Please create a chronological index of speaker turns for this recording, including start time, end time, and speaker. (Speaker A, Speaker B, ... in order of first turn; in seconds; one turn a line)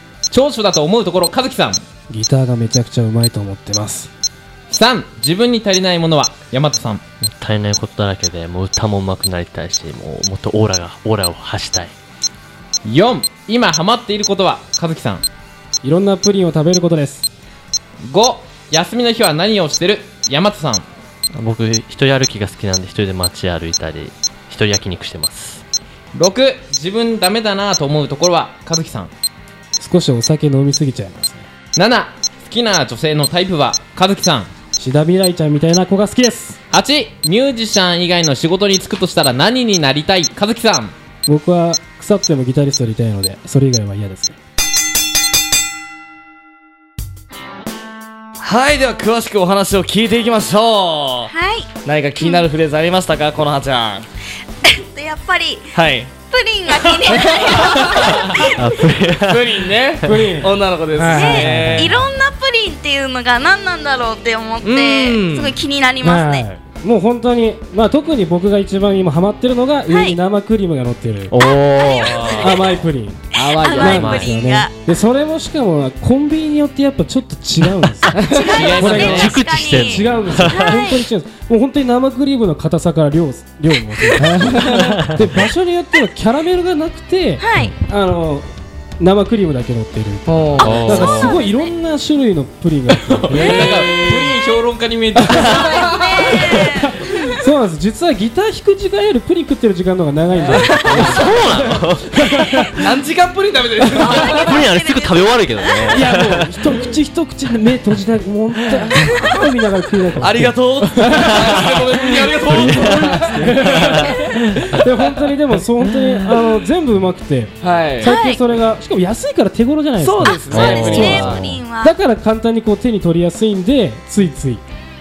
Speaker A: 0.3-1.8
Speaker B: 2.1-4.1
Speaker A: 4.7-7.0
Speaker C: 7.2-11.9
Speaker A: 12.8-15.2
Speaker B: 15.8-17.3
Speaker A: 18.0-20.9
Speaker C: 21.3-25.6
Speaker A: 26.1-29.1
Speaker B: 29.8-31.5
Speaker A: 31.8-34.5
Speaker B: 34.8-36.6
Speaker A: 36.7-40.9
Speaker B: 41.3-44.4
Speaker D: 48.4-51.3
Speaker E: 51.3-52.4
Speaker D: 51.8-54.0
Speaker E: 54.6-58.6
Speaker D: 55.7-56.1
Speaker D: 57.1-58.2
Speaker C: 58.5-60.3
Speaker D: 59.2-62.0
Speaker B: 60.0-61.9
Speaker E: 61.1-66.5
Speaker D: 64.6-65.6
Speaker B: 66.0-71.3
Speaker E: 69.9-70.2
Speaker C: 71.3-72.7
Speaker E: 71.7-72.7
Speaker D: 72.0-72.4
Speaker B: 72.4-73.2
Speaker D: 73.3-74.2
Speaker E: 73.3-74.7
Speaker B: 73.8-88.5
Speaker C: 73.9-74.3
Speaker D: 78.2-78.6
Speaker E: 78.3-81.0
Speaker A: 78.5-79.4
Speaker C: 78.9-80.9
Speaker E: 84.0-84.3
Speaker D: 84.4-84.7
Speaker C: 84.6-85.2
Speaker E: 87.4-87.7
Speaker B: 89.0-93.6
Speaker D: 90.3-91.2
Speaker A: 90.6-91.4
Speaker E: 90.8-91.7
Speaker A: 93.1-96.6
Speaker D: 93.3-94.3
Speaker E: 93.4-93.9
Speaker D: 95.2-96.5
Speaker E: 95.4-97.4
Speaker B: 97.3-102.8
Speaker D: 100.4-101.2
Speaker C: 100.9-102.6
Speaker D: 102.8-104.6
Speaker B: 103.8-104.4
Speaker E: 104.0-106.0
Speaker C: 104.1-106.5
Speaker B: 105.9-111.8
Speaker E: 109.0-109.4
Speaker D: 110.2-113.8
Speaker C: 112.4-114.7
Speaker B: 112.5-124.6
Speaker D: 117.6-118.2
Speaker E: 118.0-118.4
Speaker D: 120.0-121.4
Speaker E: 120.2-122.0
Speaker A: 120.5-121.6